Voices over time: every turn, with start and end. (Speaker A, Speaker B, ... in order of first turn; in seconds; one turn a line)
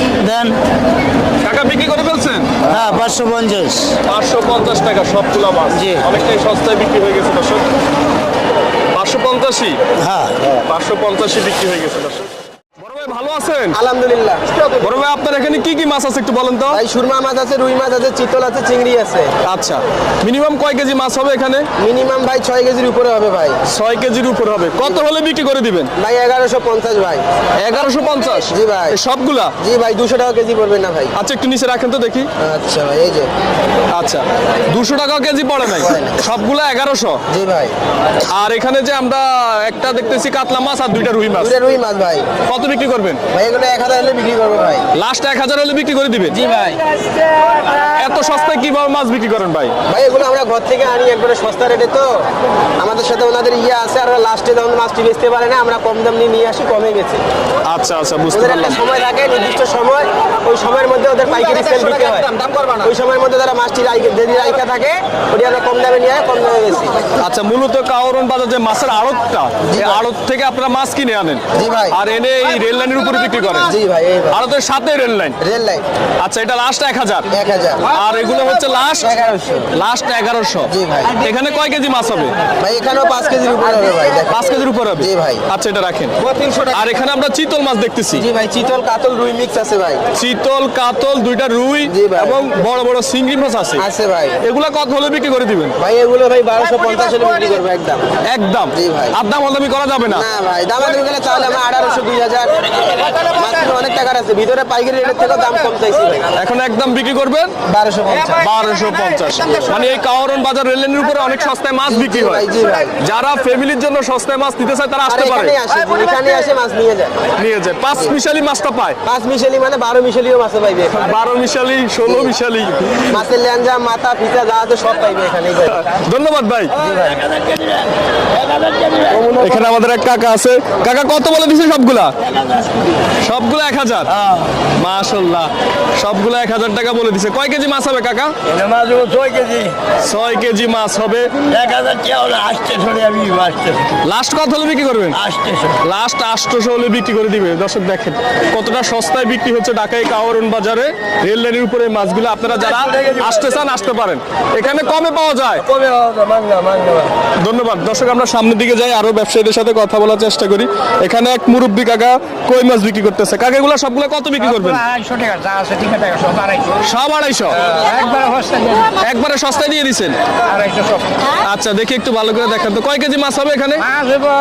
Speaker A: 0.2-0.6
Speaker B: 1.4-2.6
Speaker A: 2.6-4.0
Speaker B: 4.1-7.7
Speaker A: 5.7-6.1
Speaker B: 8.9-9.8
Speaker A: 10.0-10.4
Speaker B: 10.7-13.8
Speaker C: 13.7-14.7
Speaker B: 14.8-16.8
Speaker C: 16.7-19.3
Speaker B: 19.4-21.7
Speaker C: 21.8-23.6
Speaker B: 23.7-25.9
Speaker C: 26.0-27.2
Speaker B: 27.6-29.5
Speaker C: 28.5-28.9
Speaker C: 29.6-31.1
Speaker B: 31.2-32.3
Speaker C: 32.4-33.3
Speaker B: 33.9-37.2
Speaker C: 35.8-36.2
Speaker C: 37.3-37.7
Speaker B: 38.3-41.5
Speaker C: 41.4-42.3
Speaker B: 42.5-43.2
Speaker C: 43.3-44.9
Speaker B: 44.9-46.4
Speaker C: 46.3-46.8
Speaker B: 47.8-49.7
Speaker C: 49.9-52.2
Speaker C: 52.8-57.2
Speaker B: 57.7-58.8
Speaker C: 58.3-67.0
Speaker B: 67.2-73.7
Speaker C: 69.7-70.0
Speaker C: 71.5-72.0
Speaker C: 73.6-74.4
Speaker B: 74.3-75.4
Speaker C: 75.4-75.8
Speaker B: 76.2-77.3
Speaker C: 77.3-77.9
Speaker B: 77.9-79.1
Speaker C: 79.0-79.7
Speaker B: 79.7-82.4
Speaker C: 80.7-81.2
Speaker C: 82.6-85.4
Speaker B: 84.3-86.1
Speaker C: 86.3-86.7
Speaker B: 86.7-88.2
Speaker C: 88.1-90.0
Speaker B: 90.1-93.8
Speaker C: 91.9-92.4
Speaker C: 93.8-94.4
Speaker B: 94.4-95.8
Speaker C: 95.8-98.0
Speaker B: 98.2-100.2
Speaker C: 98.7-99.2
Speaker C: 100.1-106.3
Speaker B: 106.3-107.5
Speaker C: 107.7-108.5
Speaker B: 108.4-112.5
Speaker C: 111.9-113.0
Speaker B: 113.0-115.5
Speaker C: 115.1-117.2
Speaker B: 117.4-119.0
Speaker C: 119.0-121.0
Speaker B: 120.9-123.1
Speaker C: 122.0-122.3
Speaker C: 123.1-125.9
Speaker B: 125.7-126.7
Speaker C: 126.8-127.3
Speaker C: 129.1-129.7
Speaker B: 129.3-132.1
Speaker B: 133.2-134.1
Speaker B: 134.8-138.3
Speaker A: 138.7-139.5
Speaker B: 140.0-141.3
Speaker A: 141.5-143.8
Speaker B: 144.0-145.2
Speaker A: 145.2-145.7
Speaker B: 145.8-155.7
Speaker C: 155.8-157.1
Speaker B: 157.4-164.9
Speaker B: 166.8-167.6
Speaker B: 169.0-170.2
Speaker B: 171.4-173.9